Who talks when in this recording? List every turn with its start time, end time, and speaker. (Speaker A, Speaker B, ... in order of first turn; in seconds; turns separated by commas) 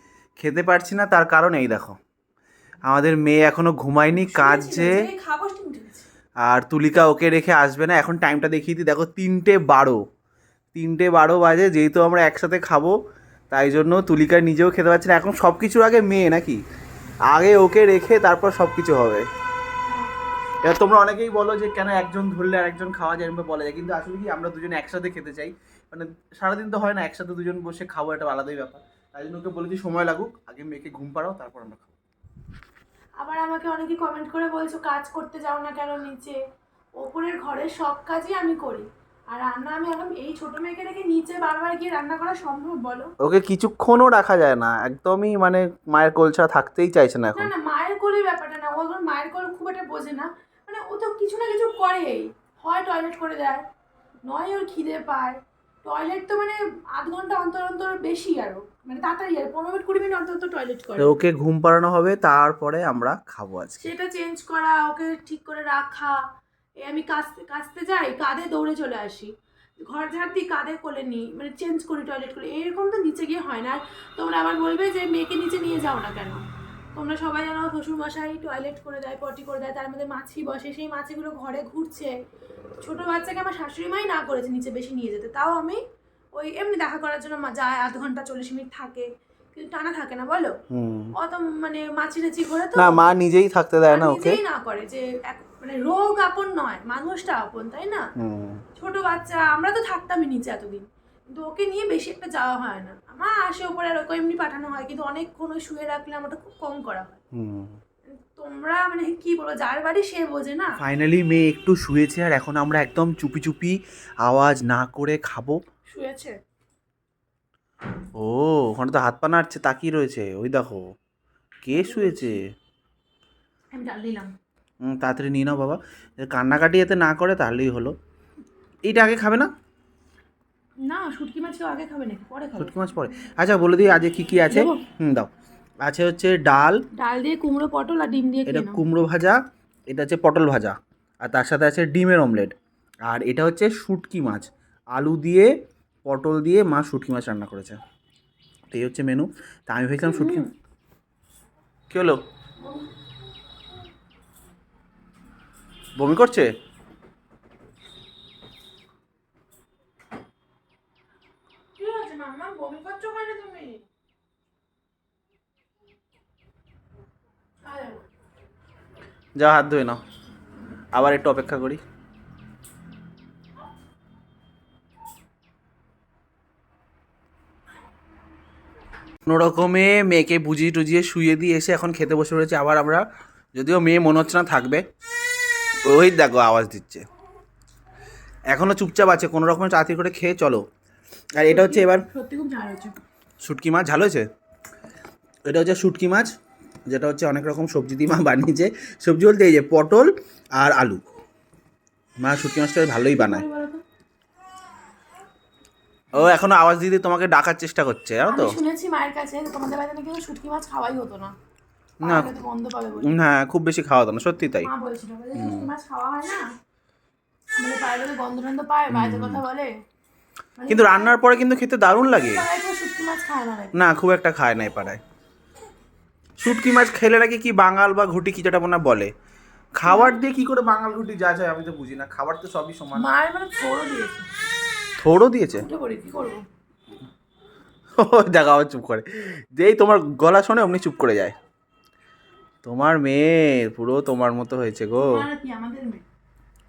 Speaker A: 0.4-2.0, Speaker A: 2.9-5.0, Speaker B: 4.2-6.0, Speaker A: 6.4-10.0, Speaker A: 10.7-13.0, Speaker A: 13.5-16.6, Speaker A: 17.3-19.2, Speaker A: 20.6-31.9, Speaker B: 33.2-36.4, Speaker B: 37.0-43.1, Speaker A: 43.2-47.5, Speaker B: 47.4-53.6, Speaker B: 54.3-61.2, Speaker A: 61.0-63.9, Speaker B: 63.8-66.2, Speaker B: 66.8-69.3, Speaker B: 69.8-82.1, Speaker B: 82.8-85.8, Speaker B: 86.4-90.6, Speaker A: 90.7-91.1, Speaker B: 91.2-93.1, Speaker A: 92.8-94.4, Speaker B: 93.9-98.1, Speaker A: 98.2-98.6, Speaker B: 98.8-107.2, Speaker A: 107.3-107.8, Speaker B: 108.1-110.8, Speaker A: 110.8-115.6, Speaker B: 115.9-116.4, Speaker A: 118.2-120.8, Speaker A: 121.6-122.5, Speaker B: 121.7-122.4, Speaker B: 123.7-124.3, Speaker A: 124.8-127.9, Speaker A: 128.8-129.5, Speaker B: 130.8-132.8, Speaker A: 132.6-135.3, Speaker B: 134.5-134.8, Speaker A: 135.8-136.8, Speaker B: 137.0-138.8, Speaker A: 138.5-145.5, Speaker A: 146.1-147.8, Speaker A: 148.7-150.4, Speaker B: 150.0-150.5, Speaker A: 151.9-152.2, Speaker B: 152.6-152.9, Speaker A: 156.0-156.5, Speaker B: 161.8-163.8, Speaker B: 167.7-168.1, Speaker A: 169.4-170.0, Speaker A: 170.9-171.8, Speaker A: 179.3-183.0, Speaker A: 183.6-184.8, Speaker A: 185.9-187.1, Speaker A: 188.5-190.6, Speaker A: 191.4-192.1, Speaker B: 191.5-193.0, Speaker A: 193.4-194.3, Speaker A: 195.5-196.3, Speaker A: 196.9-201.1, Speaker A: 202.2-203.4, Speaker B: 203.1-203.8, Speaker A: 206.2-208.6, Speaker B: 208.3-211.3, Speaker B: 212.0-213.2, Speaker A: 212.0-212.3, Speaker A: 213.0-214.7, Speaker B: 214.6-216.5, Speaker A: 215.3-215.7, Speaker B: 217.6-219.7, Speaker A: 218.9-219.4, Speaker B: 220.6-221.2, Speaker A: 220.7-222.4, Speaker B: 222.1-223.8, Speaker A: 223.7-225.0, Speaker A: 226.4-229.1, Speaker A: 229.8-233.1, Speaker B: 229.8-230.2, Speaker B: 232.9-234.3, Speaker A: 235.0-235.7, Speaker B: 235.6-236.4, Speaker A: 238.0-241.3, Speaker A: 242.6-245.2, Speaker B: 244.9-246.1